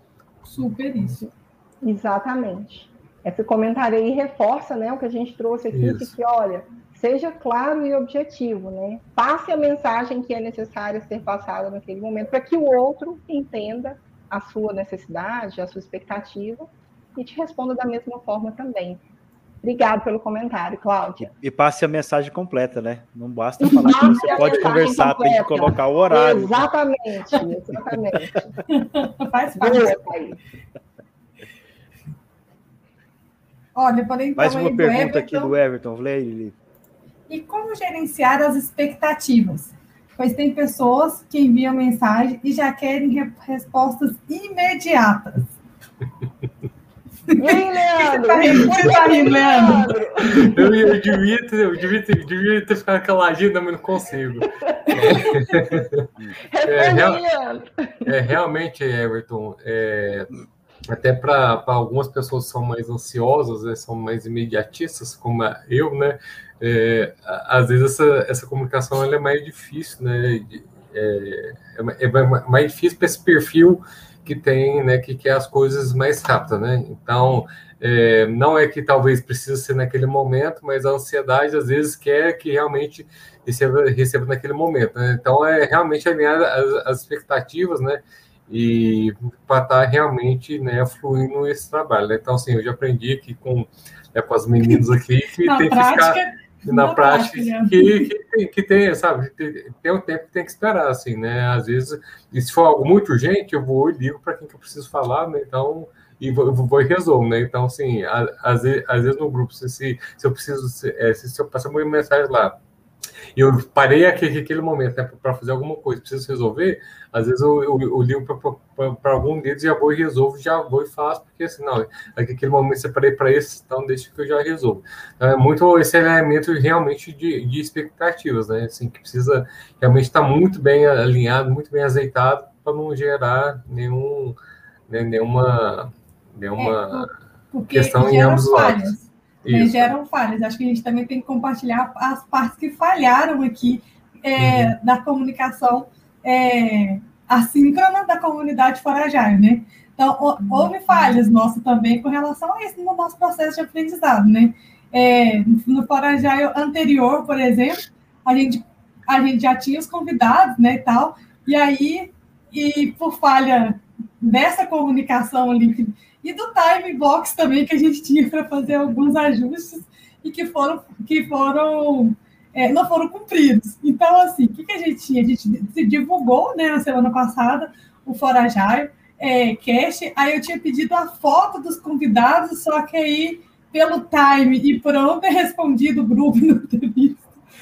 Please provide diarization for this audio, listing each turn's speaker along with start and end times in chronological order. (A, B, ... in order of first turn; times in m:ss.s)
0:00.4-0:01.2 A
0:01.8-0:19.0 B
0:05.7-0:06.1 C
0:19.6-0:21.3 B
0:21.2-0:26.7 D
0:23.6-0:28.6 B
0:28.7-0:30.0 A
0:29.6-0:30.4 B
0:33.7-0:35.5 A
0:34.4-0:36.6 D
0:37.3-0:45.5 A
0:47.4-0:50.8 B
0:47.4-0:49.9 A
0:50.2-0:56.0 C
0:55.0-0:55.6 A
0:56.5-0:58.1 B
0:56.6-0:57.2 C
0:58.0-1:52.6 C
1:35.4-1:38.1 A
1:53.3-2:14.4 C
2:14.9-2:17.1 C
2:16.6-3:07.3 A
2:17.7-2:19.9 C
2:24.4-2:24.7 C